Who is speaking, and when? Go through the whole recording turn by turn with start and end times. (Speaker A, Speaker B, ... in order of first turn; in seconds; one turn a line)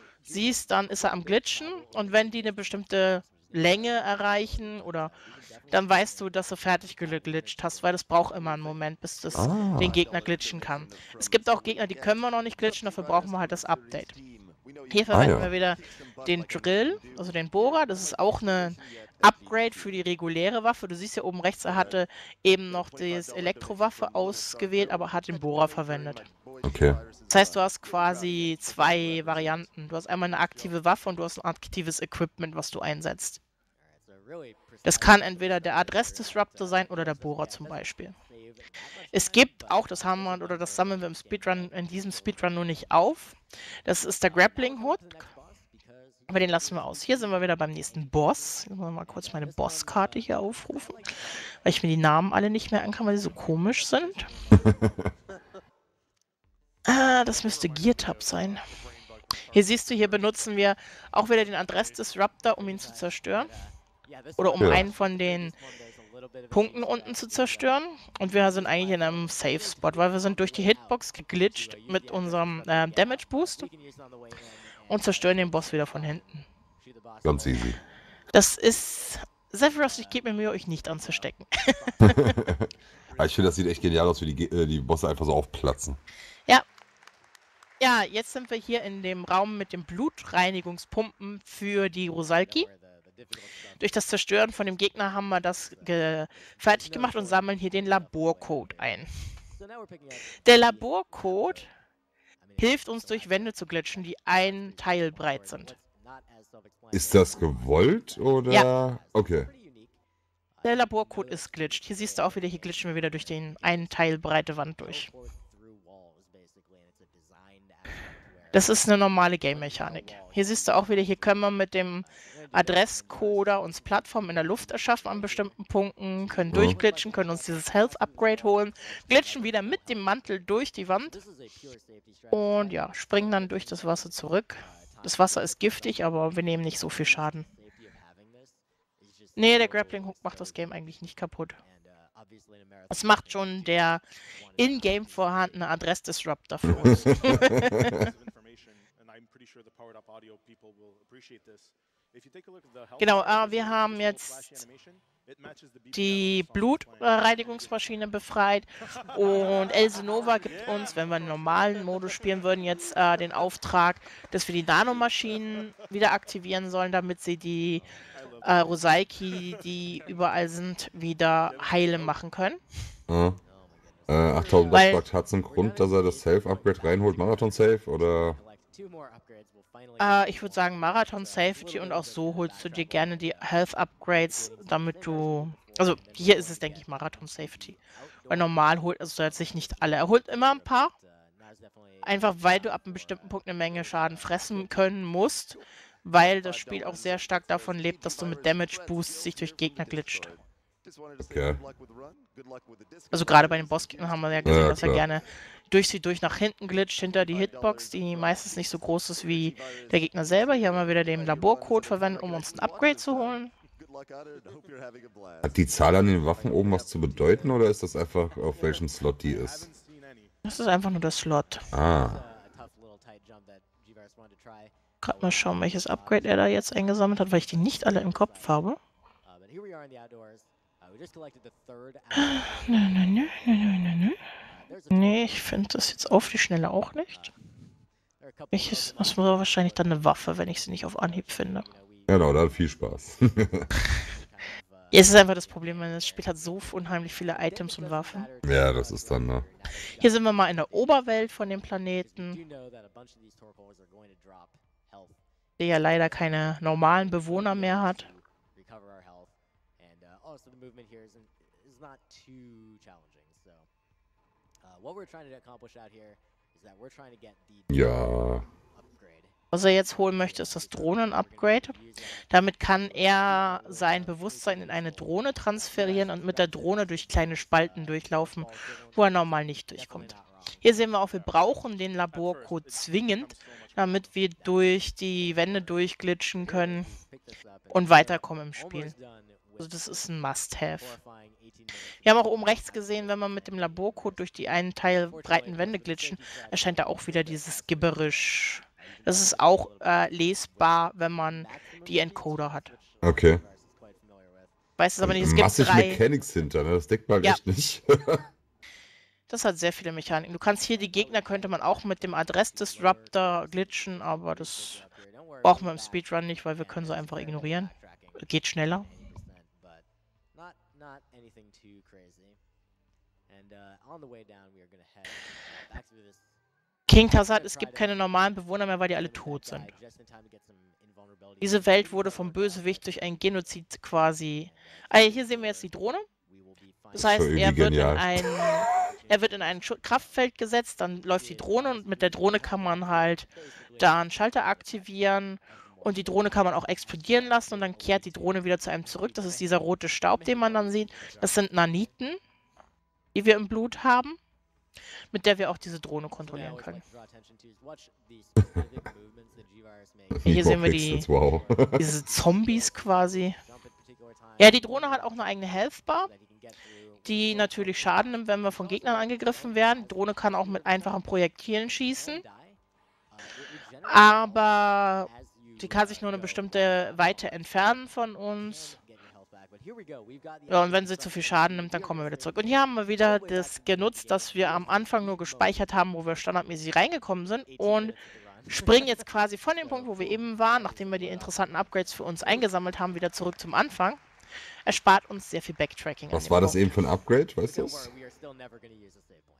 Speaker A: 0.3-5.1
Speaker A: 5.7-14.2
Speaker B: 9.3-10.0
Speaker A: 14.9-26.3
Speaker B: 15.1-15.5
Speaker B: 26.6-27.0
Speaker A: 27.3-33.4
Speaker A: 34.8-38.1
Speaker A: 39.1-45.3
Speaker A: 46.3-51.1
Speaker A: 51.6-54.3
Speaker B: 54.5-55.1
Speaker A: 56.9-58.6
Speaker A: 59.5-63.6
Speaker A: 64.4-65.6
Speaker B: 64.6-64.9
Speaker A: 66.5-73.7
Speaker A: 74.9-76.5
Speaker B: 77.2-77.8
Speaker A: 78.3-82.3
Speaker B: 82.0-86.0
Speaker A: 87.8-92.7
Speaker A: 93.8-99.1
Speaker A: 100.4-101.7
Speaker A: 102.6-105.8
Speaker B: 106.9-109.5
Speaker A: 110.6-115.1
Speaker A: 118.5-131.2
Speaker B: 126.5-126.8
Speaker A: 132.3-137.5
Speaker A: 139.4-141.6
Speaker A: 142.9-144.0
Speaker A: 144.6-148.0
Speaker B: 146.7-148.1
Speaker A: 153.0-154.7
Speaker A: 155.9-167.9
Speaker A: 168.4-172.6
Speaker B: 173.1-173.4
Speaker B: 174.1-178.4
Speaker A: 174.7-175.0
Speaker A: 180.0-190.9
Speaker A: 192.0-200.4
Speaker B: 201.2-201.7
Speaker A: 203.1-213.5
Speaker B: 204.4-205.0
Speaker B: 215.4-219.7
Speaker A: 220.4-221.6
Speaker B: 221.7-222.2
Speaker A: 225.0-228.8
Speaker A: 232.1-234.2
Speaker A: 234.9-237.3
Speaker A: 238.5-241.7
Speaker B: 242.1-243.7
Speaker A: 244.9-248.3
Speaker B: 248.4-249.5
Speaker A: 250.0-252.4
Speaker A: 255.6-258.1
Speaker B: 267.7-268.5
Speaker A: 269.5-271.8
Speaker A: 272.3-286.9
Speaker A: 287.7-288.9
Speaker A: 289.6-291.0
Speaker A: 292.0-302.8
Speaker B: 303.0-303.4
Speaker A: 304.8-306.0
Speaker B: 305.0-308.2
Speaker A: 309.3-314.9
Speaker A: 315.4-318.9
Speaker A: 326.9-329.7
Speaker A: 331.4-336.1
Speaker B: 336.9-338.7
Speaker A: 336.9-352.2
Speaker A: 353.1-354.2
Speaker A: 355.1-356.8
Speaker B: 358.4-358.8
Speaker B: 360.1-361.9
Speaker A: 360.2-361.1
Speaker A: 361.8-363.4
Speaker A: 364.4-366.1
Speaker A: 367.1-372.2
Speaker A: 373.9-378.8
Speaker A: 380.5-388.0
Speaker A: 388.5-394.0
Speaker A: 394.7-396.6
Speaker B: 396.1-397.9